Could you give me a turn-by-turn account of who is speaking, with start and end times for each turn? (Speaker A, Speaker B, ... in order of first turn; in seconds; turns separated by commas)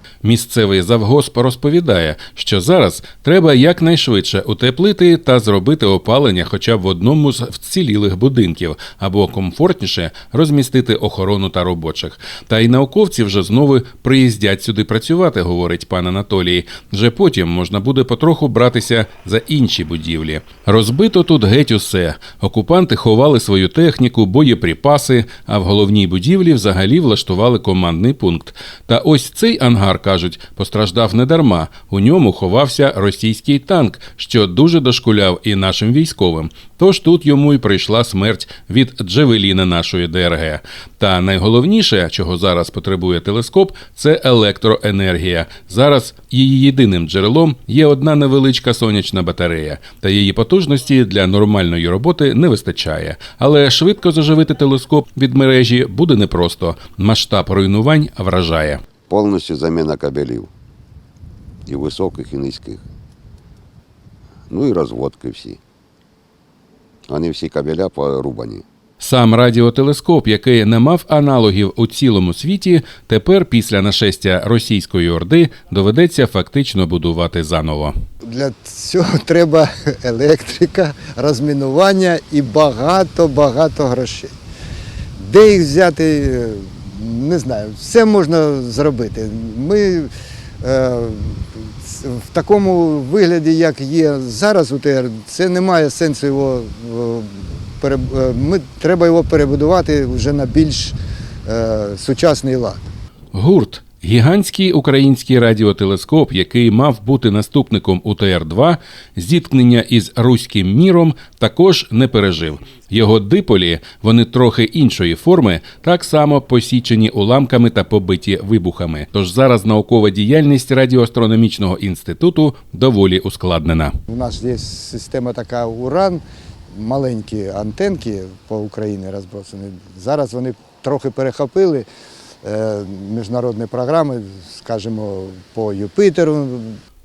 Speaker A: 0.2-58.8, Speaker B: 59.1-60.5, Speaker B: 61.6-62.8, Speaker B: 64.5-65.6, Speaker B: 67.1-68.6, Speaker A: 69.0-77.9, Speaker C: 78.2-84.3, Speaker C: 85.2-102.8, Speaker A: 103.3-123.9, Speaker C: 124.1-131.8, Speaker C: 132.4-136.8